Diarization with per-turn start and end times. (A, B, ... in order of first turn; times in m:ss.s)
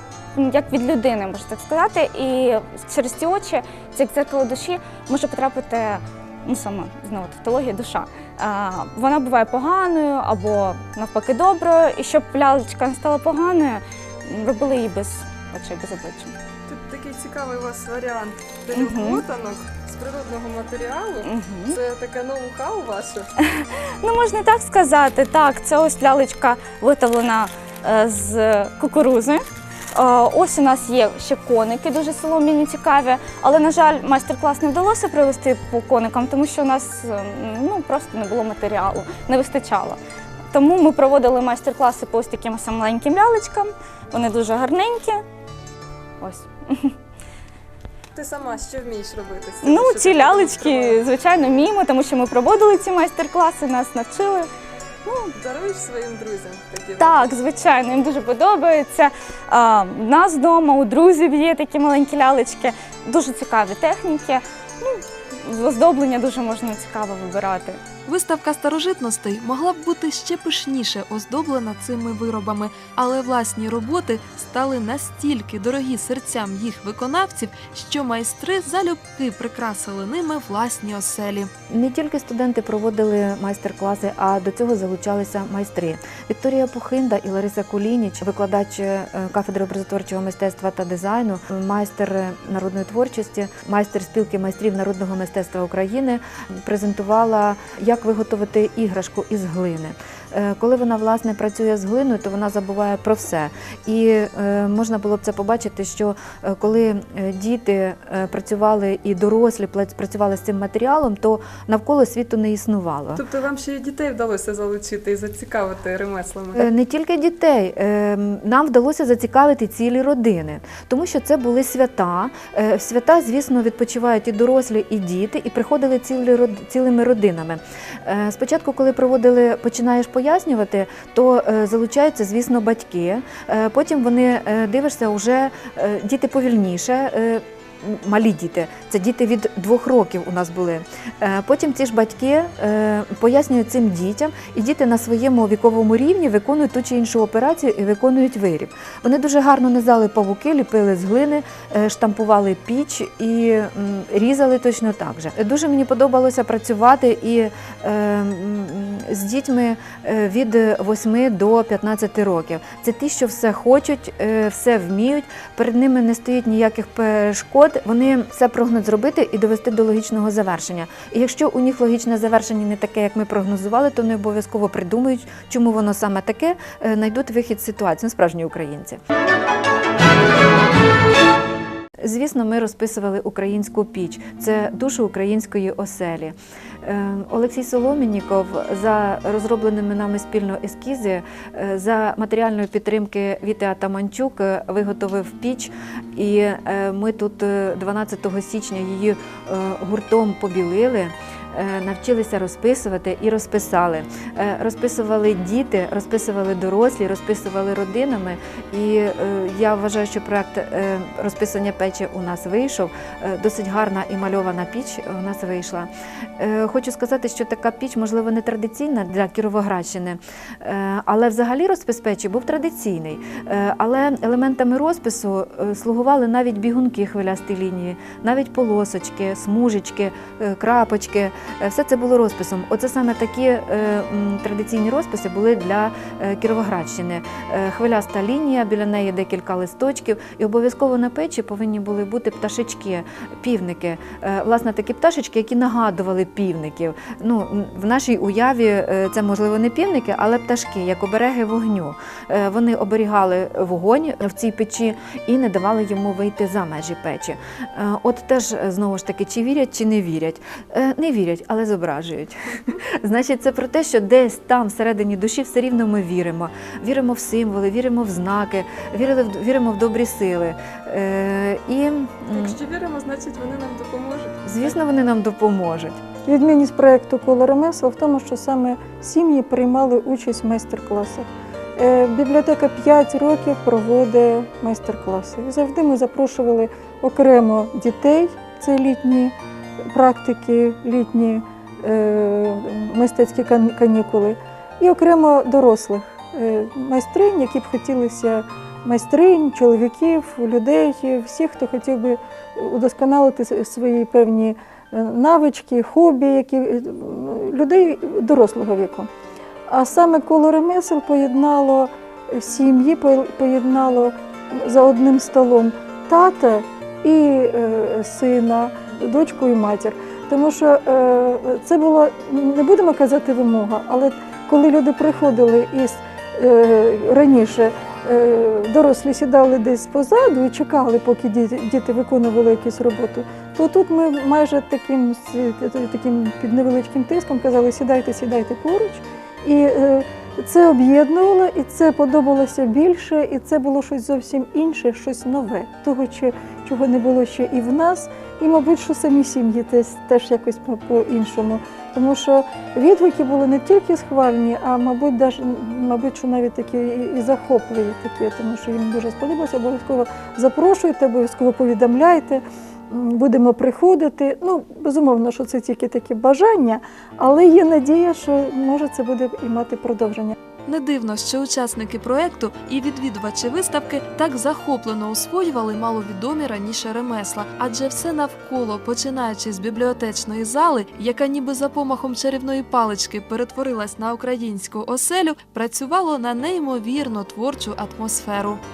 0:00.3-0:16.3 A
0:16.7-0:23.3 B
0:18.7-0:19.2 A
0:21.2-0:21.8 A
0:23.4-0:40.0 A
0:40.5-0:45.2 A
0:46.2-0:46.9 A
0:48.1-0:51.0 B
0:49.6-0:54.5 A
0:55.0-0:55.3 A
0:55.3-0:57.3 B
0:57.0-1:07.8 A
1:08.0-1:21.5 C
1:21.7-1:53.2 D
1:53.1-1:56.7 B
1:56.5-2:59.0 D
3:02.0-4:32.6 D
4:32.3-4:34.7 B
4:34.4-4:36.0 D
4:36.2-4:49.3 E
4:49.9-5:09.1 E
5:09.7-6:10.4 E
6:10.6-6:28.6 C